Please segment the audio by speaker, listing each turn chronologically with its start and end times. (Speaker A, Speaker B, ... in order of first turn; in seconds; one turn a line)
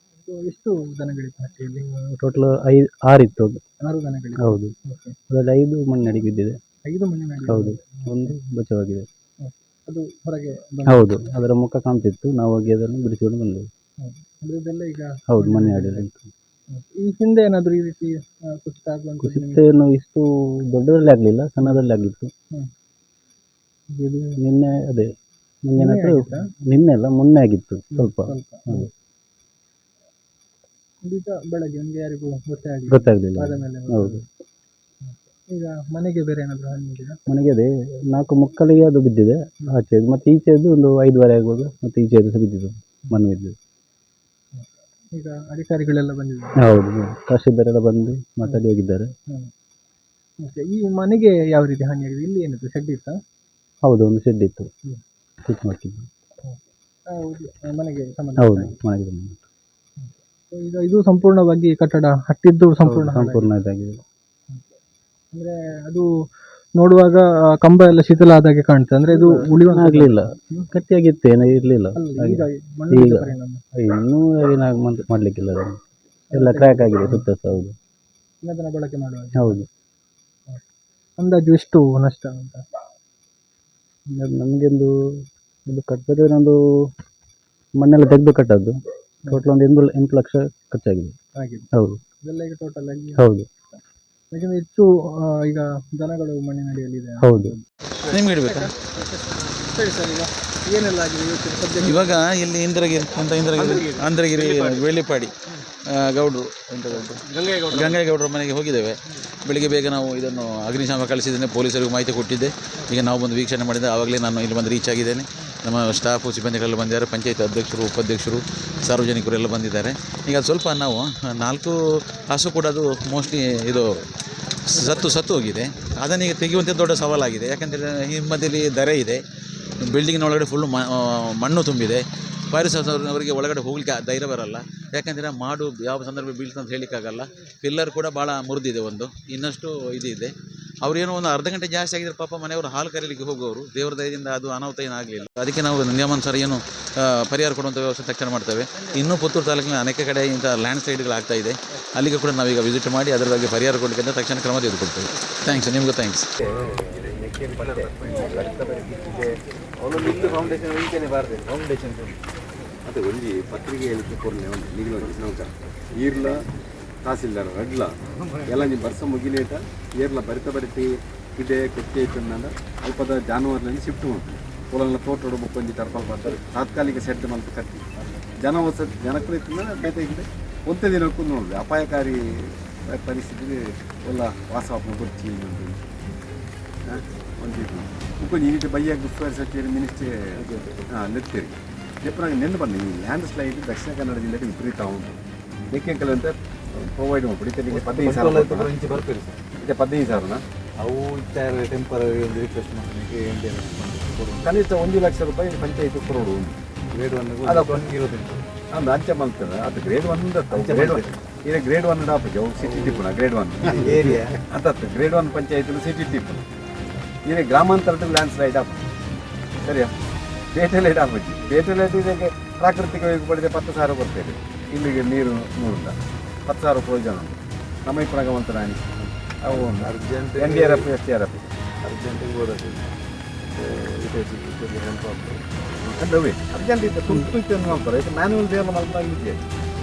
Speaker A: 0.2-1.9
Speaker B: 2.1-3.6
Speaker A: 3.8-5.2
Speaker B: 4.4-4.7
Speaker B: 5.3-6.6
Speaker A: 6.9-8.1
Speaker B: 7.5-9.1
Speaker A: 9.4-11.2
Speaker B: 10.8-13.7
Speaker A: 14.0-16.1
Speaker B: 15.3-16.3
Speaker A: 16.7-19.6
Speaker B: 19.2-22.3
Speaker B: 23.9-25.1
Speaker B: 25.6-28.9
Speaker A: 25.8-26.4
Speaker A: 27.9-28.9
Speaker A: 31.0-34.2
Speaker B: 32.9-34.2
Speaker A: 35.1-37.2
Speaker B: 37.3-43.5
Speaker A: 44.5-46.6
Speaker B: 46.6-49.1
Speaker A: 50.4-53.1
Speaker B: 53.8-54.7
Speaker B: 55.4-56.1
Speaker A: 57.1-58.7
Speaker B: 58.4-59.4
Speaker A: 60.5-63.5
Speaker B: 62.8-64.0
Speaker A: 65.3-66.0
Speaker A: 66.8-70.7
Speaker B: 69.2-75.8
Speaker A: 72.0-73.6
Speaker A: 76.3-77.2
Speaker B: 76.3-77.7
Speaker A: 78.4-79.6
Speaker B: 79.4-79.7
Speaker A: 81.2-82.6
Speaker B: 84.1-86.9
Speaker B: 87.8-88.8
Speaker B: 89.3-91.2
Speaker A: 91.4-91.7
Speaker B: 91.7-92.0
Speaker A: 92.2-93.2
Speaker B: 93.2-93.5
Speaker A: 94.3-97.3
Speaker B: 97.2-97.5
Speaker A: 98.1-102.1
Speaker C: 98.1-98.7
Speaker C: 101.8-105.3
Speaker C: 106.0-121.7
Speaker C: 122.3-123.9
Speaker C: 124.7-129.2
Speaker C: 129.8-140.3
Speaker C: 140.8-156.2
Speaker D: 156.8-159.2
Speaker D: 159.8-160.6
Speaker E: 159.9-160.4
Speaker E: 161.3-161.7
Speaker D: 162.8-166.4
Speaker D: 167.0-177.9
Speaker D: 178.4-185.8
Speaker D: 186.8-195.2
Speaker D: 195.7-198.9
Speaker E: 198.1-199.0
Speaker D: 199.5-200.4
Speaker D: 204.4-206.5
Speaker E: 207.2-208.0
Speaker D: 207.4-208.0
Speaker D: 208.7-216.4
Speaker E: 210.5-211.0
Speaker E: 212.7-213.0
Speaker E: 213.7-214.2
Speaker D: 217.2-218.8
Speaker D: 219.6-219.9
Speaker D: 220.5-225.9
Speaker D: 226.5-231.5
Speaker E: 229.5-230.7
Speaker E: 231.9-232.4
Speaker D: 234.0-234.3
Speaker D: 235.8-239.4